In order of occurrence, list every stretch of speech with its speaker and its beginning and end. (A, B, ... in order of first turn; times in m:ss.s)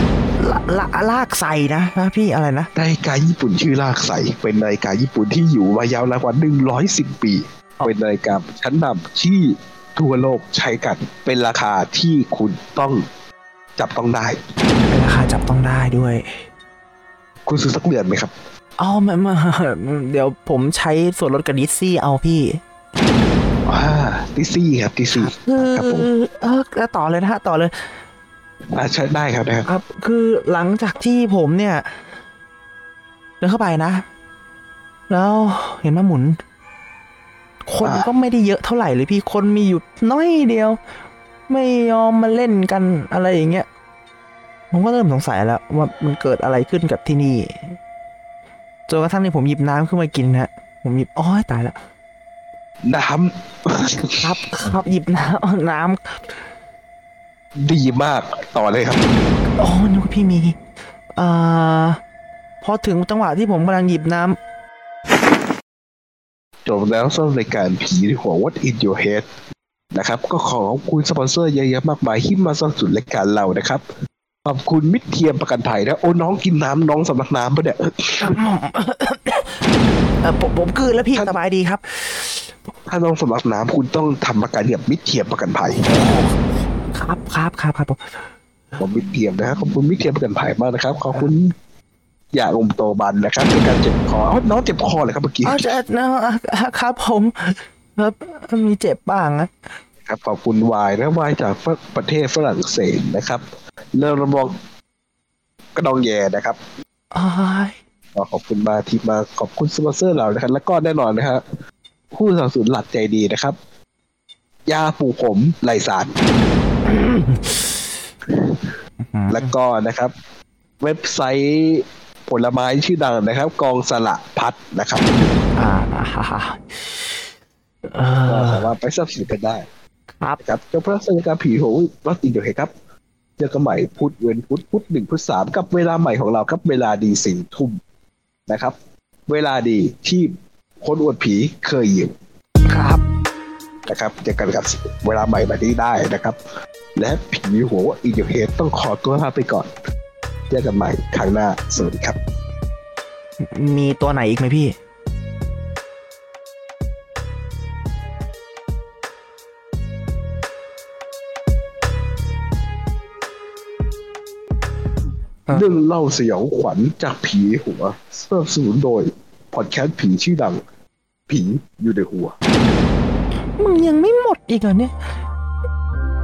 0:00.4-0:02.7 A
0:02.7-0:13.0 B
0:13.8-0:14.4 B
0:14.9-0:16.4 A
0:17.5-0:18.3 B
0:18.8-0:22.6 A
0:23.6-0:26.1 B
0:25.1-0:27.9 A
0:28.7-0:29.7 B
0:29.6-0:32.0 A
0:33.4-0:34.0 A
0:35.1-0:36.4 A
0:37.6-0:40.8 A
0:37.8-0:38.1 B
0:41.5-0:43.7 A
0:44.7-0:47.8 A
0:48.9-0:51.8 A
0:52.8-0:54.3 B
0:54.2-0:56.2 A
0:57.6-0:59.0 B
0:59.6-1:00.6 A
1:01.1-1:02.0 A
1:02.6-1:04.4 A
1:06.6-1:09.2 B
1:09.9-1:13.8 B
1:14.4-1:18.4 B
1:18.2-1:19.6 A
1:20.2-1:22.7 A
1:22.9-1:25.9 B
1:25.7-1:26.4 A
1:26.9-1:28.3 A
1:28.8-1:31.5 B
1:32.3-1:35.7 B
1:35.4-1:39.5 A
1:40.0-1:44.6 B
1:45.7-1:46.6 B
1:47.1-1:47.8 A
1:48.1-1:51.4 B
1:52.1-1:53.6 B
1:54.7-1:56.2 B
1:56.8-1:57.9 A
1:58.3-1:58.6 B
1:59.1-1:59.5 A
1:59.3-2:00.1 B
2:00.8-2:05.3 B
2:05.6-2:07.2 A
2:07.9-2:08.7 A
2:08.2-2:09.6 B
2:10.4-2:12.7 B
2:13.4-2:17.8 B
2:18.5-2:18.7 B
2:19.3-2:22.1 B
2:22.7-2:23.0 A
2:23.8-2:26.4 B
2:27.0-2:29.7 B
2:30.5-2:32.2 B
2:33.4-2:34.7 A
2:45.5-2:50.6 B
2:51.3-2:52.4 B
2:53.6-2:54.9 A